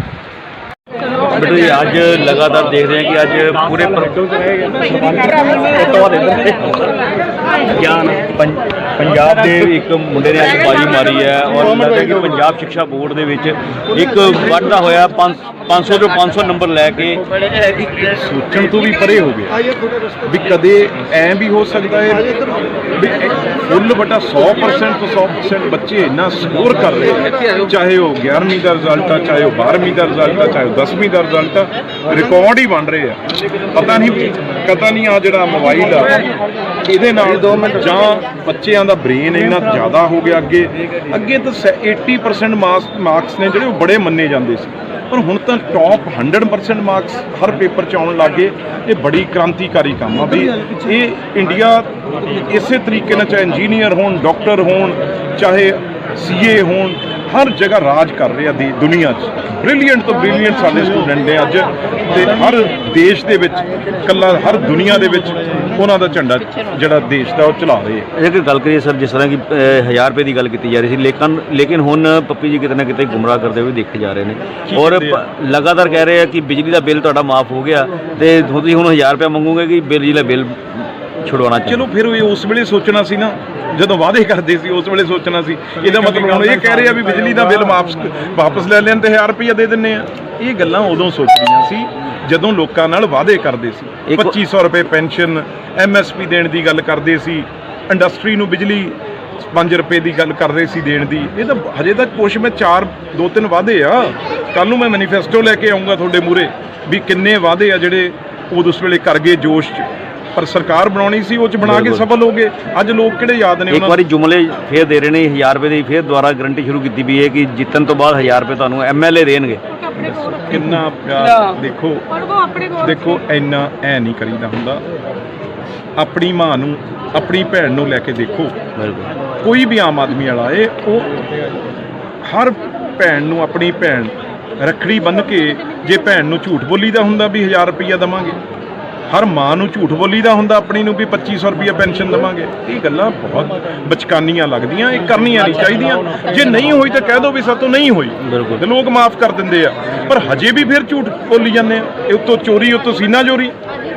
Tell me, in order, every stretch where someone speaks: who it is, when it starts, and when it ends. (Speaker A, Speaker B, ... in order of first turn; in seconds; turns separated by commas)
Speaker A: 1.4-6.9, Speaker A: 7.7-17.2, Speaker B: 18.0-19.5, Speaker B: 20.3-22.3, Speaker B: 22.9-33.2, Speaker B: 33.7-36.3, Speaker B: 36.8-51.9, Speaker B: 52.5-68.1, Speaker A: 68.2-81.8, Speaker B: 74.7-75.2, Speaker B: 81.7-98.9, Speaker A: 94.1-94.3, Speaker B: 99.5-114.0, Speaker A: 111.6-112.0, Speaker A: 113.7-119.6, Speaker B: 120.0-122.0, Speaker B: 122.8-124.8, Speaker B: 126.0-128.5, Speaker A: 128.8-129.1, Speaker B: 129.4-131.1, Speaker B: 132.2-138.4, Speaker B: 139.1-153.5, Speaker A: 148.2-148.6